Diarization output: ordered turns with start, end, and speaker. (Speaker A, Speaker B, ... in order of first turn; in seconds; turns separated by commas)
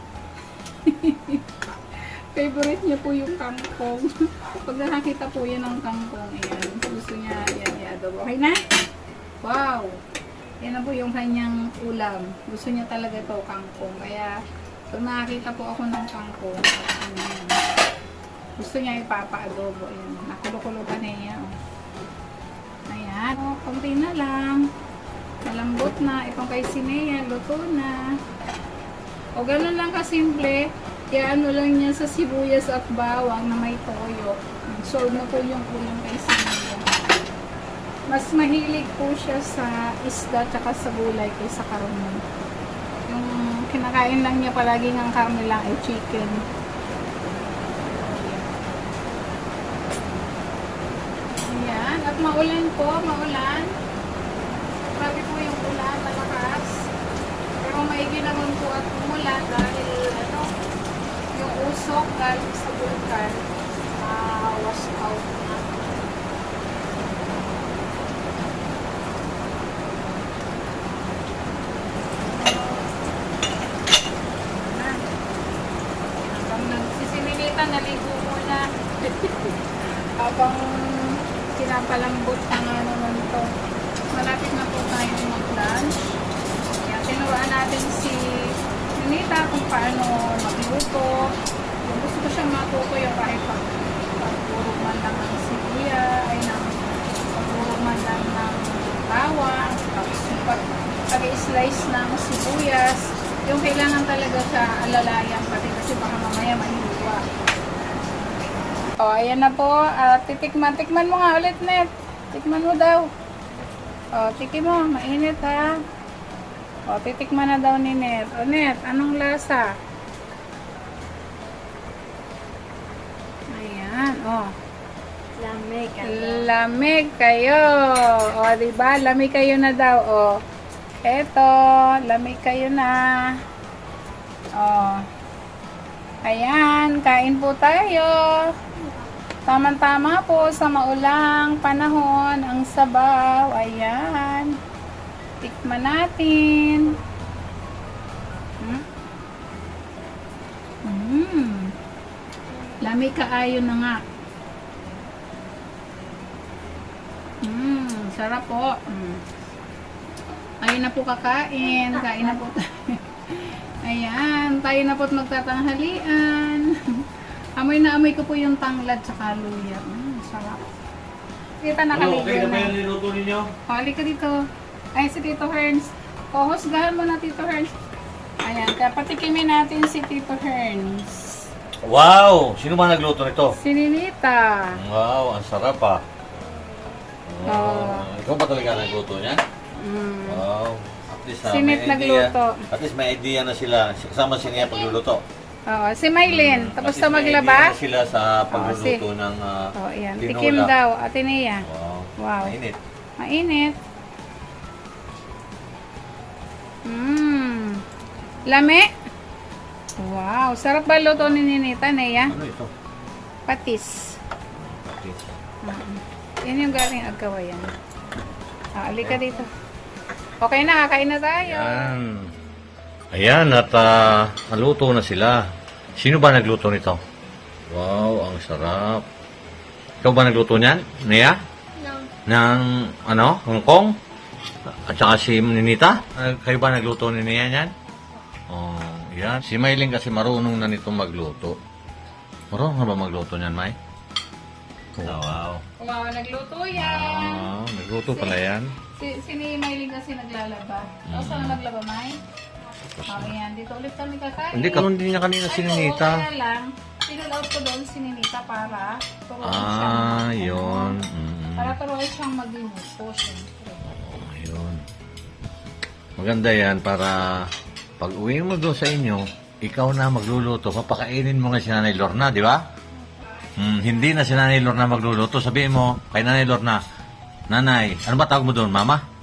Speaker A: 0.8-8.6, Speaker A: 9.4-10.0, Speaker A: 10.6-14.4, Speaker A: 14.9-17.6, Speaker A: 18.6-21.6, Speaker A: 22.9-24.7, Speaker A: 25.5-28.0, Speaker A: 29.4-36.9, Speaker A: 38.1-42.2, Speaker A: 43.1-46.4, Speaker A: 47.9-48.7, Speaker A: 51.3-53.8, Speaker A: 54.8-56.9, Speaker A: 57.6-60.5, Speaker A: 61.4-66.2, Speaker A: 70.8-71.2, Speaker A: 72.2-72.9, Speaker A: 74.5-75.0, Speaker A: 76.3-79.6, Speaker A: 80.2-83.5, Speaker A: 84.1-85.9, Speaker A: 86.8-91.4, Speaker A: 91.9-96.8, Speaker A: 97.3-107.3, Speaker A: 109.0-113.1, Speaker A: 114.2-115.8, Speaker A: 116.9-119.7, Speaker A: 123.5-124.5, Speaker B: 125.4-126.5, Speaker A: 126.0-130.4, Speaker A: 131.1-133.4, Speaker A: 134.6-135.1, Speaker A: 136.2-138.6, Speaker B: 138.8-139.1, Speaker A: 139.5-144.6, Speaker A: 145.4-147.0, Speaker A: 148.6-148.9, Speaker A: 150.8-151.7, Speaker B: 152.5-152.8, Speaker A: 152.8-154.0, Speaker A: 157.4-159.2, Speaker A: 160.6-167.1, Speaker B: 161.6-162.5, Speaker A: 167.6-170.7, Speaker A: 171.6-172.8, Speaker C: 171.9-173.5, Speaker A: 173.7-174.3, Speaker A: 175.0-177.8, Speaker A: 178.4-181.5, Speaker C: 181.8-183.6, Speaker A: 183.6-184.8, Speaker C: 184.8-186.0, Speaker B: 186.4-186.9, Speaker C: 187.3-189.4, Speaker A: 187.4-188.1, Speaker A: 189.8-190.4, Speaker C: 190.3-195.2, Speaker A: 191.4-192.7, Speaker B: 194.6-194.9, Speaker A: 195.7-197.7, Speaker C: 196.2-200.7, Speaker A: 198.5-199.0, Speaker A: 199.8-201.7, Speaker C: 201.7-202.8, Speaker A: 202.2-202.6, Speaker A: 203.2-203.8, Speaker A: 206.9-207.8, Speaker A: 208.5-208.9, Speaker A: 210.0-212.4, Speaker C: 212.3-212.7, Speaker A: 213.5-214.2, Speaker C: 214.5-215.2, Speaker A: 215.6-217.7, Speaker A: 218.8-219.5, Speaker A: 220.4-222.0, Speaker C: 221.4-222.3, Speaker C: 223.1-227.0, Speaker C: 227.7-229.1, Speaker C: 230.0-231.4, Speaker B: 231.8-232.1, Speaker C: 232.3-234.0, Speaker C: 234.7-237.7, Speaker B: 237.9-238.2, Speaker C: 238.5-241.6, Speaker C: 242.5-243.8, Speaker C: 245.0-245.6, Speaker A: 245.8-247.5, Speaker C: 246.7-248.7, Speaker A: 248.1-252.2, Speaker C: 251.1-251.6, Speaker C: 253.0-253.3, Speaker A: 253.1-254.9, Speaker C: 254.5-256.2, Speaker A: 255.4-261.0, Speaker C: 259.4-261.8, Speaker A: 261.6-263.9, Speaker C: 263.8-264.9, Speaker C: 266.2-272.6, Speaker A: 273.1-274.1, Speaker C: 273.6-276.8, Speaker C: 277.5-279.0